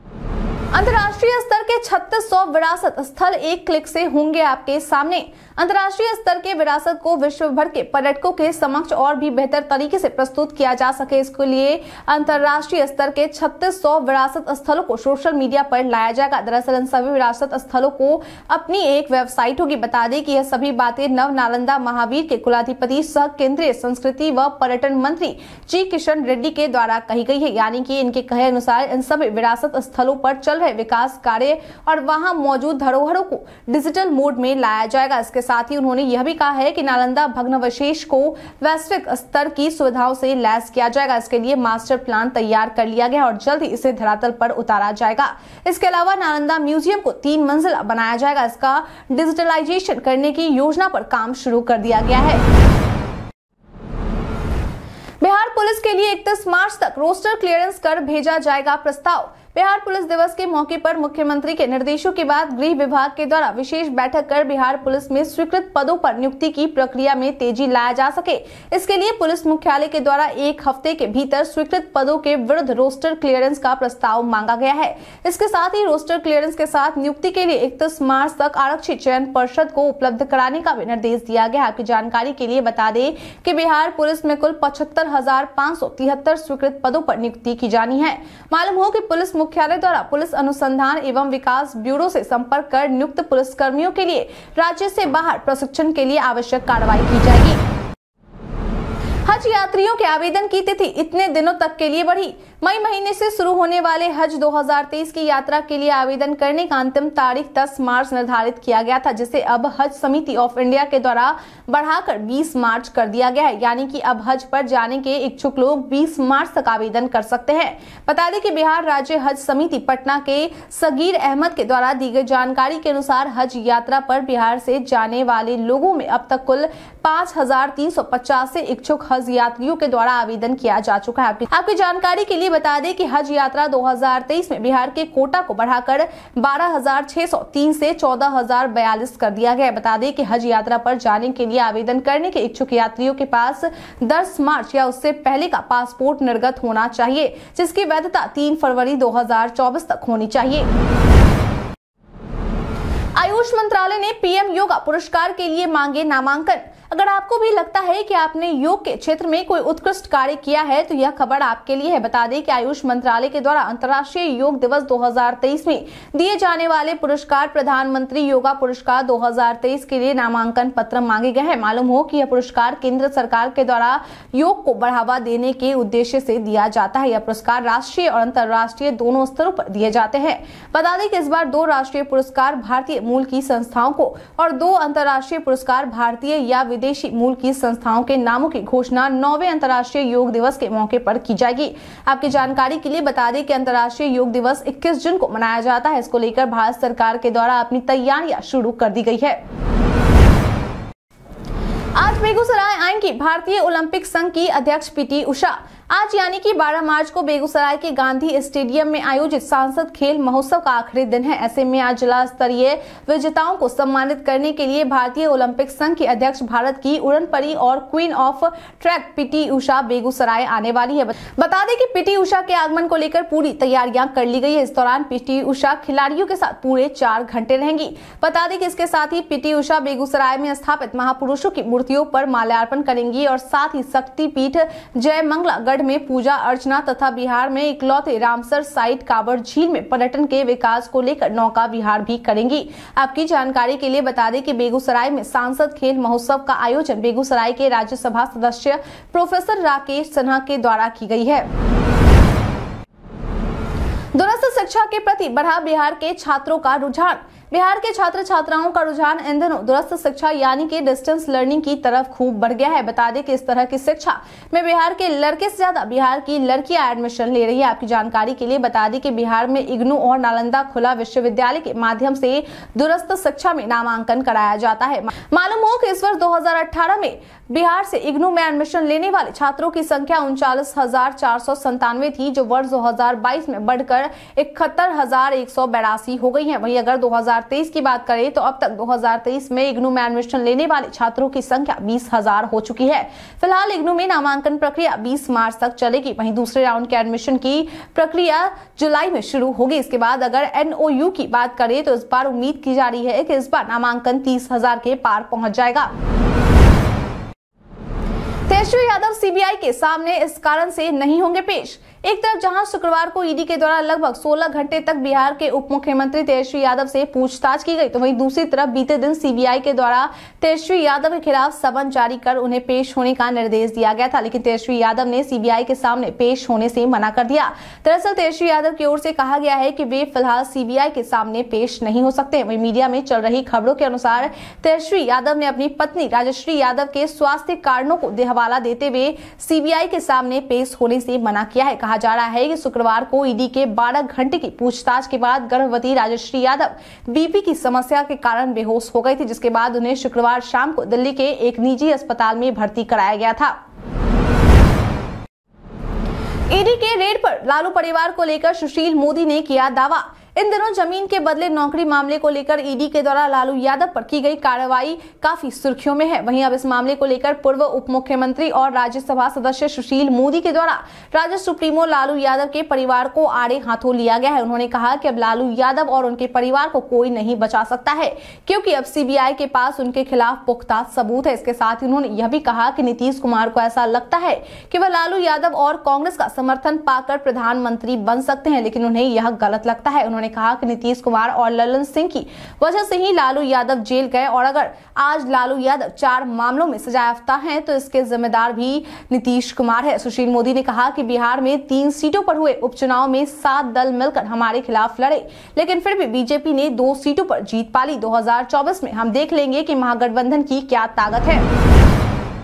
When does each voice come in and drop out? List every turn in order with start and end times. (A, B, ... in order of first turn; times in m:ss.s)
0:00.7-0:52.4 A
0:55.2-1:37.6 A
1:39.2-2:30.7 A
2:33.2-3:19.4 A
3:22.0-4:11.5 A
4:14.1-5:05.9 A
5:08.5-5:53.6 A
5:56.5-6:51.4 A